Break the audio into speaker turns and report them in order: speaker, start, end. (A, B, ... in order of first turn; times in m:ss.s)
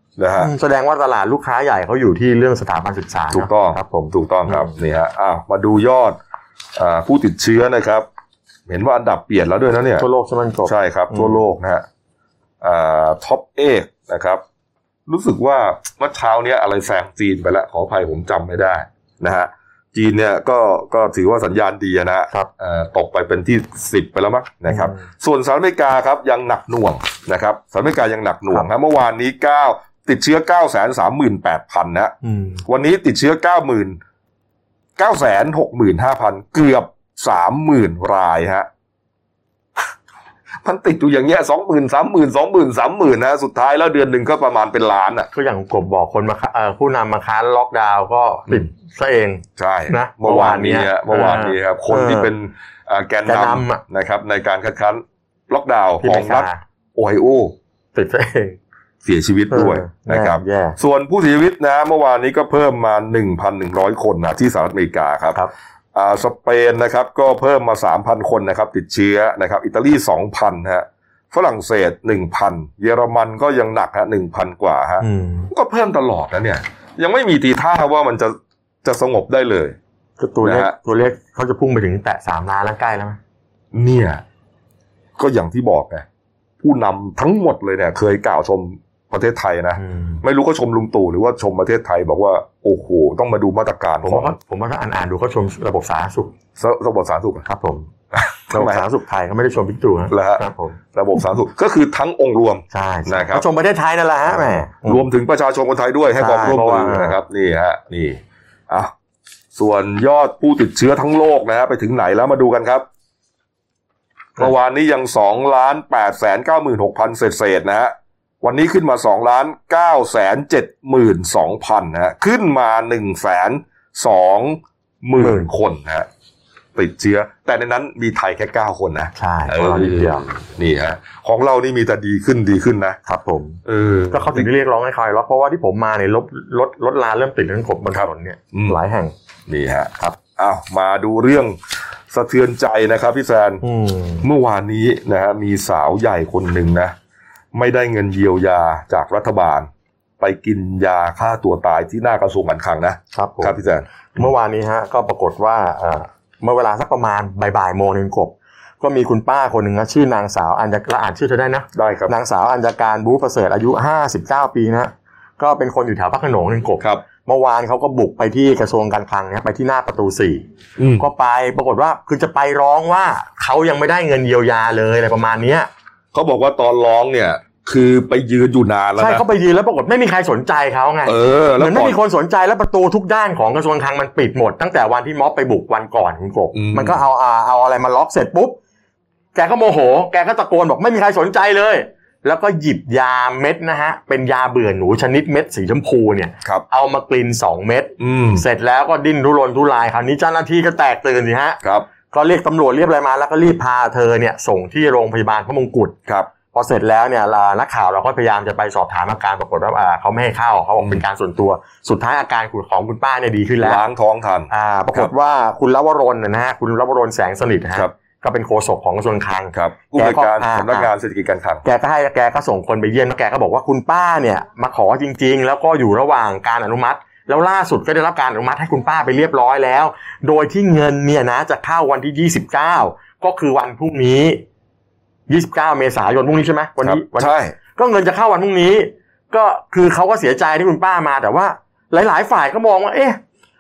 0:00.2-0:00.5 A
0:00.4-0:04.7 B
0:03.3-0:06.2 A
0:06.8-0:08.0 A
0:08.7-0:10.1 A
0:10.0-0:11.4 B
0:10.7-0:11.8 A
0:12.6-0:14.4 A
0:15.1-0:32.1 A
0:24.7-0:25.0 B
0:32.2-0:32.6 B
0:32.6-0:34.0 A
0:35.0-0:38.7 A
0:40.6-0:45.3 A
0:45.3-0:52.3 B
0:49.6-0:57.5 A
0:53.3-0:53.8 B
0:56.0-0:56.6 B
0:58.0-0:58.6 B
0:59.0-1:05.4 A
0:59.5-1:00.8 B
1:06.0-1:19.8 A
1:15.0-1:15.5 B
1:20.2-1:23.2 B
1:20.4-1:20.8 A
1:23.7-1:24.2 A
1:25.2-1:26.0 A
1:26.6-1:34.4 A
1:29.8-1:30.2 B
1:34.0-1:36.3 B
1:36.6-1:37.5 A
1:37.5-1:37.9 B
1:38.1-1:38.9 A
1:38.5-1:40.8 B
1:40.1-1:43.4 A
1:42.7-1:45.1 B
1:44.9-1:48.9 A
1:46.2-1:47.2 B
1:49.6-1:52.8 A
1:54.4-2:06.1 A
2:05.2-2:05.5 B
2:06.8-2:13.0 A
2:09.2-2:10.2 B
2:13.1-2:19.2 B
2:13.7-2:14.5 A
2:17.9-2:18.8 A
2:19.5-2:21.6 A
2:22.1-2:23.6 A
2:23.6-2:24.2 B
2:24.2-2:26.9 A
2:27.5-2:29.7 A
2:30.2-2:34.3 A
2:33.1-2:33.6 B
2:34.1-2:50.4 B
2:41.7-2:42.1 A
2:50.8-2:51.1 A
2:51.0-2:55.7 B
2:56.1-2:59.2 A
2:59.0-3:08.6 B
3:01.0-3:02.0 A
3:06.5-3:07.0 A
3:09.4-3:21.6 B
3:18.0-3:18.4 A
3:22.1-3:26.0 B
3:26.5-3:33.8 B
3:33.6-3:35.1 A
3:34.5-3:40.9 B
3:39.5-3:41.6 A
3:41.6-3:54.4 B
3:55.3-4:03.2 B
3:56.8-3:57.6 A